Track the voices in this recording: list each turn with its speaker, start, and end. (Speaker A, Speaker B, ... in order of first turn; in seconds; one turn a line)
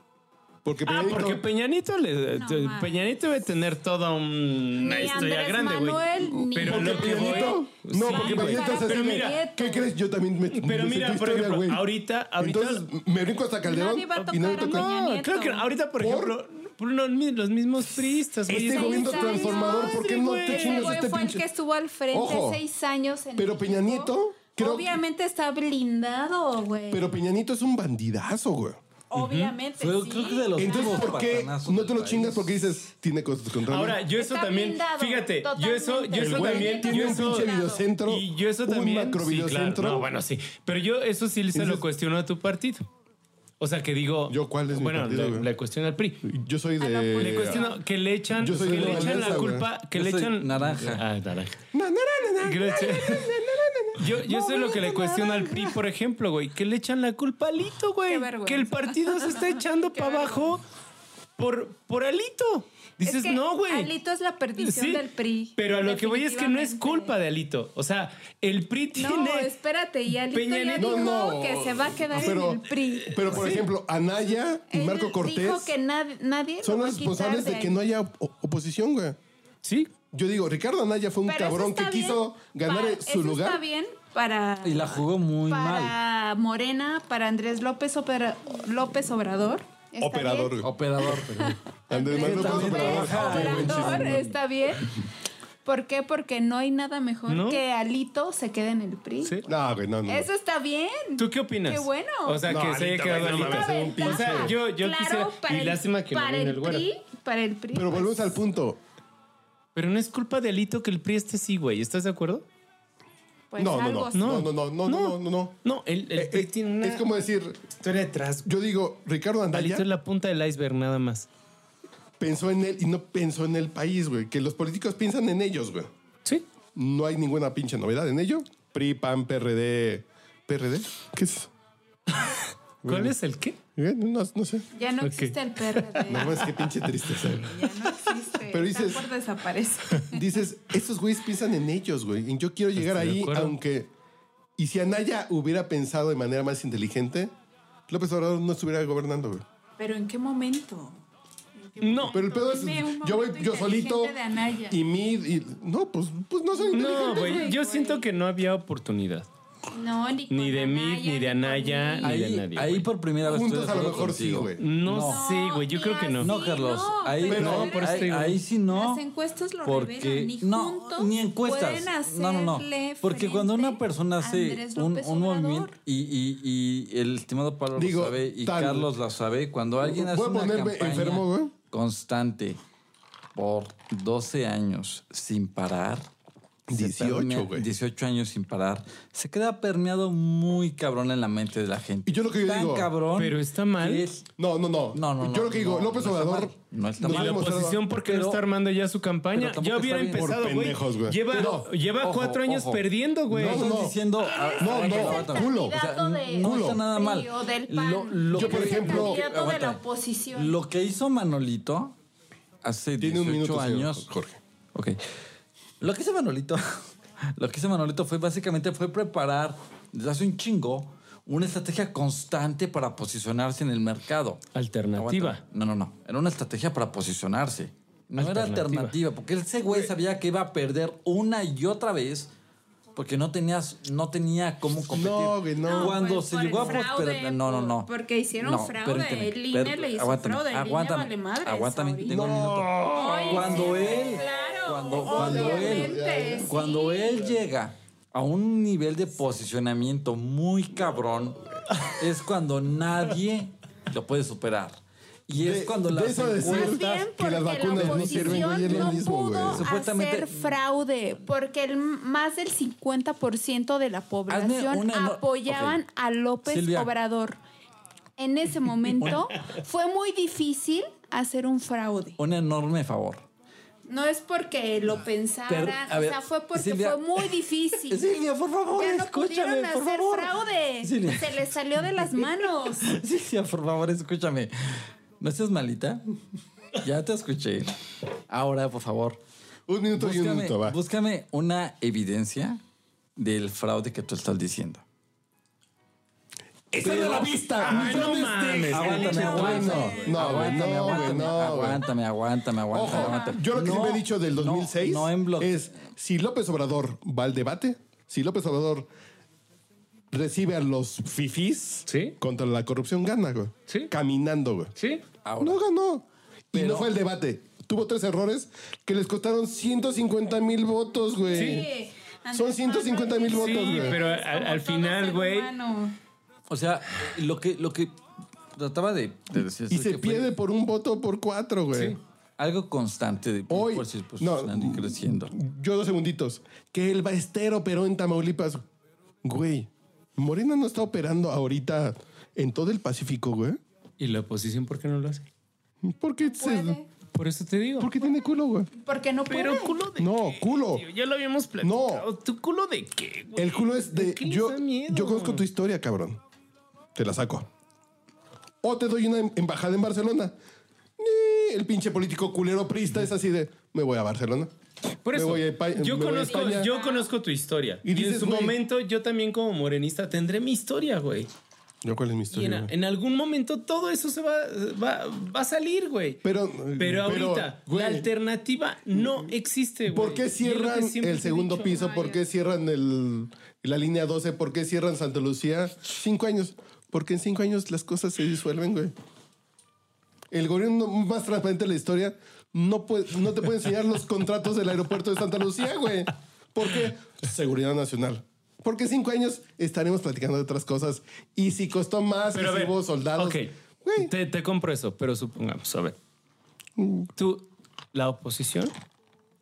Speaker A: 0.7-1.4
Speaker B: 0.8-9.4
Speaker C: 2.3-3.0
Speaker C: 4.8-9.9
Speaker A: 6.4-11.9
Speaker B: 10.5-12.9
Speaker A: 12.4-14.9
Speaker C: 13.6-15.7
Speaker B: 14.2-21.0
Speaker A: 16.0-16.4
Speaker A: 18.5-21.5
Speaker C: 18.5-27.1
Speaker A: 22.1-22.6
Speaker A: 23.4-24.9
Speaker A: 26.9-28.8
Speaker C: 29.1-31.2
Speaker B: 29.1-29.6
Speaker D: 29.8-32.5
Speaker A: 30.6-34.0
Speaker B: 33.7-37.5
Speaker C: 34.1-37.9
Speaker A: 36.1-40.1
Speaker B: 38.0-42.9
Speaker A: 41.5-41.9
Speaker B: 43.6-46.2
Speaker A: 44.3-45.5
Speaker A: 46.2-47.6
Speaker C: 46.8-47.8
Speaker B: 47.2-51.6
Speaker A: 48.3-49.7
Speaker D: 49.9-51.0
Speaker A: 51.7-54.1
Speaker B: 52.4-53.3
Speaker B: 54.0-60.6
Speaker C: 54.3-55.8
Speaker C: 58.1-60.5
Speaker B: 61.4-63.9
Speaker C: 63.0-67.1
Speaker B: 64.6-65.0
Speaker B: 65.6-69.5
Speaker C: 69.0-73.5
Speaker B: 70.3-71.2
Speaker A: 70.8-75.7
Speaker B: 72.1-72.4
Speaker B: 73.1-73.7
Speaker C: 74.7-77.8
Speaker A: 76.6-79.2
Speaker B: 79.6-79.9
Speaker A: 80.1-83.6
Speaker C: 81.3-95.0
Speaker D: 84.6-85.9
Speaker A: 90.0-90.7
Speaker D: 90.6-91.6
Speaker A: 91.9-94.3
Speaker D: 92.1-94.3
Speaker C: 95.7-99.4
Speaker B: 97.3-97.6
Speaker B: 99.2-99.5
Speaker A: 99.5-100.3
Speaker C: 100.1-102.4
Speaker B: 101.2-106.9
Speaker A: 102.4-104.5
Speaker C: 103.3-108.4
Speaker A: 107.7-108.8
Speaker B: 109.8-112.4
Speaker C: 113.5-114.4
Speaker A: 113.6-115.5
Speaker B: 114.1-117.1
Speaker A: 116.1-117.7
Speaker B: 117.8-118.5
Speaker A: 118.5-119.9
Speaker B: 119.5-121.3
Speaker A: 122.2-125.9
Speaker A: 126.8-131.5
Speaker B: 132.1-133.6
Speaker A: 132.8-133.1
Speaker A: 133.8-134.7
Speaker C: 134.8-136.5
Speaker B: 135.0-136.4
Speaker A: 136.1-137.6
Speaker C: 137.4-140.4
Speaker A: 138.5-139.1
Speaker A: 140.1-143.9
Speaker B: 142.8-143.6
Speaker A: 144.6-147.3
Speaker A: 147.9-149.4
Speaker C: 149.8-151.0
Speaker C: 151.6-154.8
Speaker B: 151.8-152.2
Speaker A: 152.1-154.2
Speaker A: 154.7-157.5
Speaker C: 156.5-158.1
Speaker B: 156.7-159.3
Speaker C: 159.7-162.2
Speaker B: 160.3-162.9
Speaker D: 162.0-165.2
Speaker A: 163.2-164.6
Speaker B: 164.6-166.3
Speaker C: 165.0-175.7
Speaker D: 166.2-169.0
Speaker B: 167.2-168.4
Speaker A: 167.3-167.8
Speaker D: 169.6-182.6
Speaker A: 177.8-178.9
Speaker A: 179.8-181.5
Speaker D: 183.3-186.1
Speaker A: 186.7-187.7
Speaker D: 186.7-194.3
Speaker A: 192.1-192.9
Speaker B: 193.2-194.1
Speaker A: 194.4-197.8
Speaker D: 194.9-198.4
Speaker B: 197.1-203.7
Speaker D: 199.3-200.5
Speaker A: 200.1-201.7
Speaker D: 201.3-209.8
Speaker A: 203.3-204.0
Speaker C: 204.2-210.6
Speaker A: 204.6-205.8
Speaker A: 206.4-206.8
Speaker A: 208.3-209.2
Speaker D: 210.3-211.9
Speaker D: 212.6-214.1
Speaker A: 213.0-214.4
Speaker D: 215.8-224.4
Speaker B: 224.5-225.4
Speaker D: 225.0-232.3
Speaker B: 228.2-229.0
Speaker D: 233.0-237.9
Speaker A: 234.9-236.0
Speaker C: 235.6-242.4
Speaker D: 238.4-254.8
Speaker A: 242.1-244.0
Speaker C: 242.9-247.2
Speaker A: 245.0-246.5
Speaker D: 255.3-257.1
Speaker A: 255.3-259.6
Speaker C: 256.4-267.4
Speaker D: 257.7-260.5
Speaker D: 264.3-265.8
Speaker D: 266.5-266.9
Speaker C: 268.2-272.2
Speaker D: 269.0-269.3
Speaker D: 272.2-273.2
Speaker C: 273.9-278.0
Speaker D: 275.5-277.3
Speaker D: 277.9-281.4
Speaker C: 278.7-282.9
Speaker D: 282.8-286.0
Speaker D: 286.8-287.8
Speaker D: 288.3-289.2
Speaker A: 289.7-290.8
Speaker D: 290.0-292.6
Speaker D: 293.2-294.8
Speaker A: 296.7-301.8
Speaker D: 296.8-305.7
Speaker B: 297.6-300.2
Speaker C: 299.4-300.0
Speaker A: 302.7-308.9
Speaker C: 302.9-303.4
Speaker A: 310.1-314.7
Speaker B: 311.9-312.1
Speaker B: 314.8-315.0
Speaker D: 315.2-315.6
Speaker A: 315.4-321.7
Speaker D: 316.5-316.9
Speaker C: 321.2-326.0
Speaker B: 321.4-321.7
Speaker A: 322.3-324.0
Speaker B: 323.3-325.5
Speaker D: 326.5-327.9
Speaker D: 328.6-330.3
Speaker A: 329.4-332.0
Speaker B: 331.7-332.0
Speaker D: 332.4-335.3
Speaker A: 333.5-338.6
Speaker A: 339.2-343.6
Speaker B: 344.0-345.3
Speaker A: 345.8-346.8
Speaker C: 346.2-346.9
Speaker B: 347.1-347.9
Speaker A: 347.8-348.7
Speaker C: 348.8-349.8
Speaker B: 349.3-355.4
Speaker A: 350.0-350.9
Speaker A: 351.6-352.1
Speaker A: 353.4-356.2
Speaker A: 356.9-357.5
Speaker A: 358.6-360.3
Speaker A: 361.0-364.5
Speaker B: 365.1-371.3
Speaker A: 365.1-366.7
Speaker C: 366.3-367.1
Speaker A: 367.8-368.6
Speaker A: 371.8-372.7
Speaker B: 372.3-376.2
Speaker A: 376.2-378.1
Speaker B: 376.8-381.9
Speaker A: 378.9-379.3
Speaker A: 379.9-388.9
Speaker C: 381.7-382.2
Speaker A: 390.3-404.1
Speaker B: 402.3-406.0
Speaker A: 406.8-407.1
Speaker B: 407.2-408.7